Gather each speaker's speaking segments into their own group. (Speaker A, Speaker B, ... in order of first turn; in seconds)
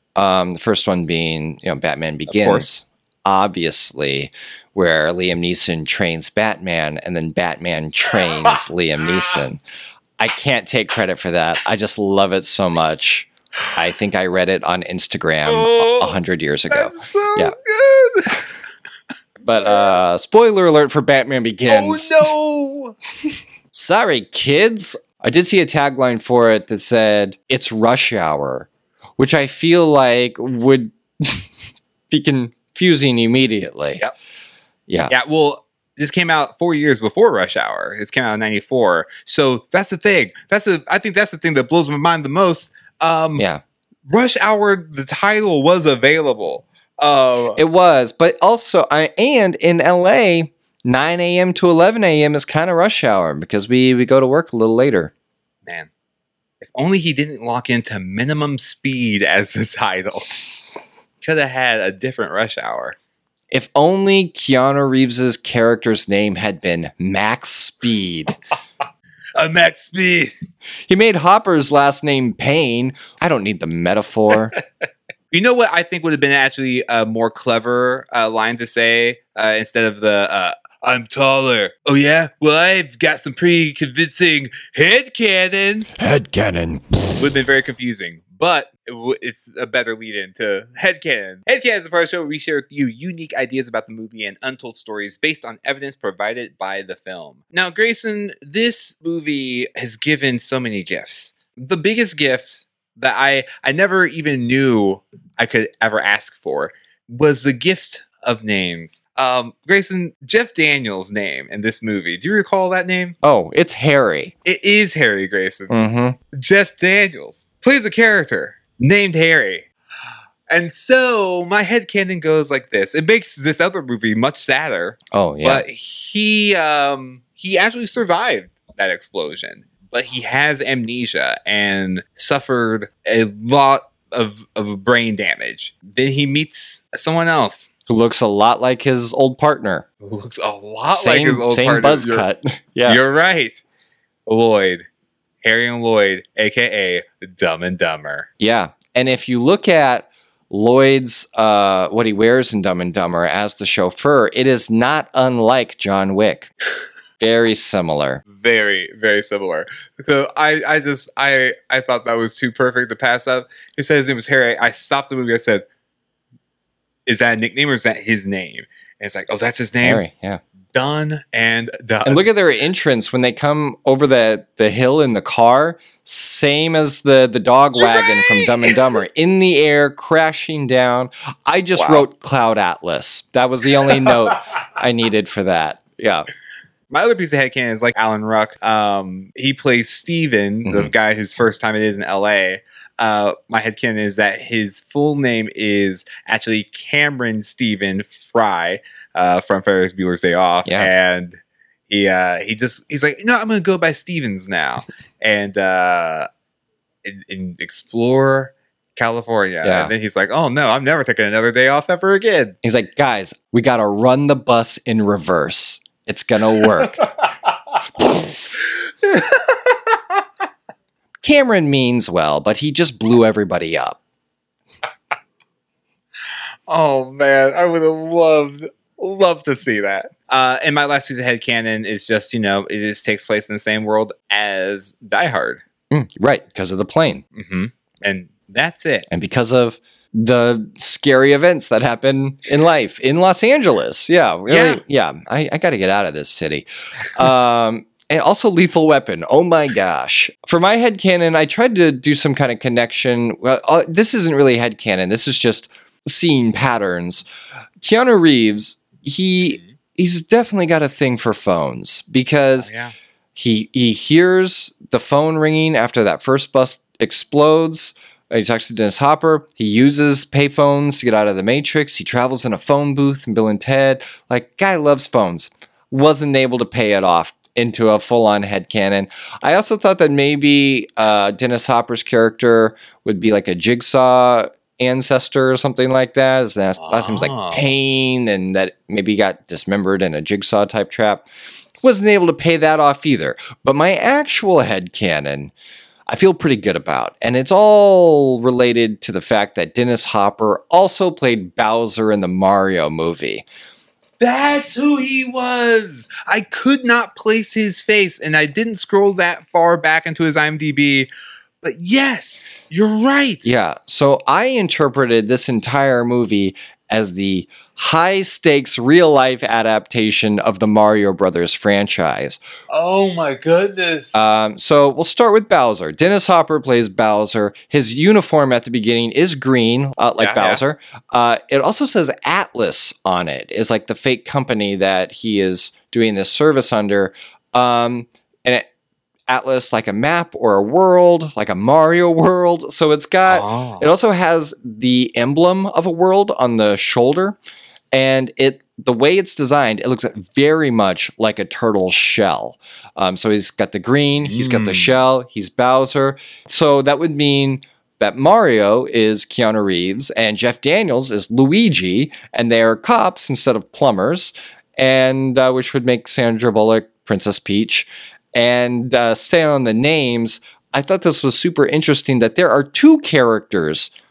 Speaker A: 0.2-9.6, 10.2-17.6, 19.4-22.3, 23.7-31.5, 32.1-34.0, 34.9-35.1, 43.4-43.6, 47.6-55.1, 63.5-68.4, 70.9-74.6, 86.0-87.2, 113.2-114.3, 115.7-116.2, 125.1-125.6, 137.9-139.8, 140.9-143.0, 148.4-156.5, 157.2-158.2, 169.8-170.4, 172.1-186.3, 190.7-190.9, 200.7-200.9, 209.6-209.9, 212.6-217.0, 221.2-224.0, 235.9-237.2, 239.1-257.2, 257.8-262.7, 263.4-291.3, 291.8-295.5, 296.1-303.5, 313.4-322.4, 324.1-338.7, 339.3-347.4, 347.9-373.9
Speaker B: 2.3-2.7, 15.4-16.2, 16.7-18.4, 21.7-23.0, 35.1-43.5, 44.1-47.6, 55.6-55.9, 56.6-60.4, 61.2-63.0, 69.4-70.3, 75.3-85.9, 87.2-113.2, 114.5-115.8, 116.3-119.7, 120.5-137.7, 140.0-142.3, 142.9-143.6, 144.3-144.9, 145.4-148.3, 158.3-165.6, 167.1-170.0, 170.7-172.3, 177.8-178.8, 181.8-182.1, 183.9-184.1, 186.9-206.3, 207.0-212.6, 217.0-217.5, 218.6-220.2, 226.7-235.6, 237.3-239.1, 244.5-244.8, 262.6-262.9, 286.8-287.7, 304.2-311.1, 311.6-313.5, 322.7-324.3, 330.2-330.6, 343.3-343.9, 354.2-355.0